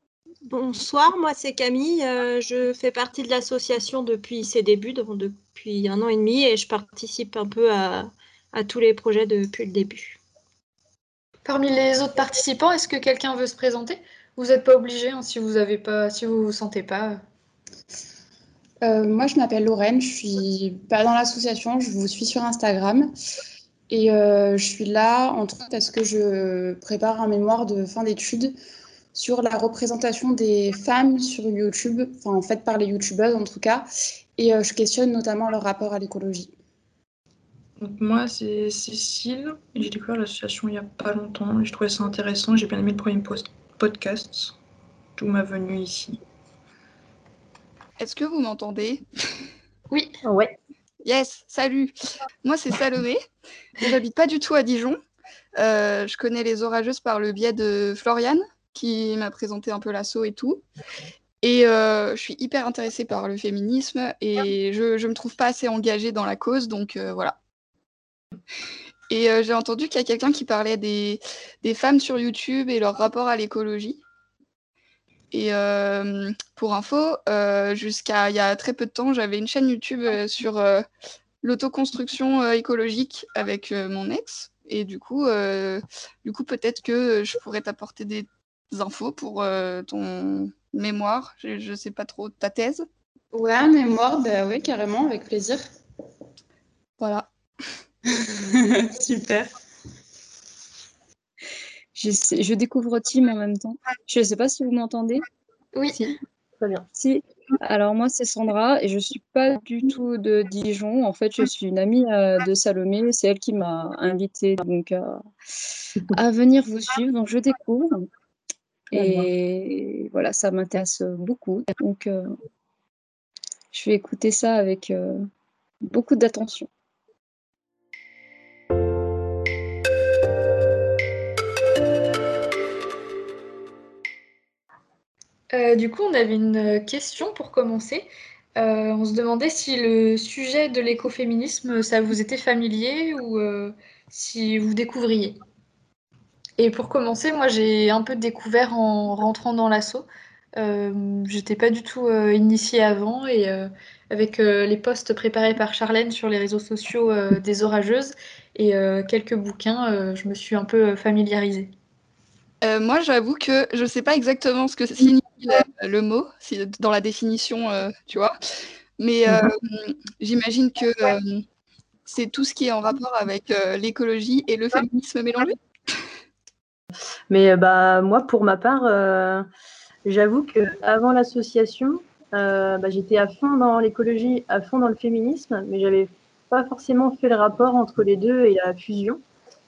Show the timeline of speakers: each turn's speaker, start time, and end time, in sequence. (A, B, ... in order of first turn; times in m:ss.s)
0:00.5-0:10.2 A
0:11.4-0:17.2 B
0:18.8-0:23.1 C
0:23.9-0:28.6 C
0:29.1-0:36.5 C
0:37.8-0:44.6 D
0:45.2-0:46.2 D
0:48.0-0:49.0 E
0:50.2-0:50.6 F
0:51.0-0:51.9 E
0:52.4-0:53.2 E
0:53.8-0:55.0 E
0:55.6-1:00.6 E
1:01.4-1:07.4 E
1:09.1-1:14.0 E
1:15.3-1:20.9 E
1:21.4-1:32.9 E
1:33.3-1:35.6 C
1:37.0-1:37.3 E
1:38.2-1:39.5 C
1:42.0-1:45.2 G
1:46.6-1:46.8 F
1:46.9-1:55.3 G
1:56.1-1:58.1 G
1:58.9-2:02.3 G
2:03.7-2:05.3 G
2:05.8-2:06.7 G
2:15.5-2:25.4 B
2:26.6-2:30.1 B
2:30.6-2:41.7 B
2:42.6-2:48.3 E
2:49.0-2:51.4 E
2:52.1-2:55.6 E
2:57.3-2:59.5 F
3:00.0-3:09.2 F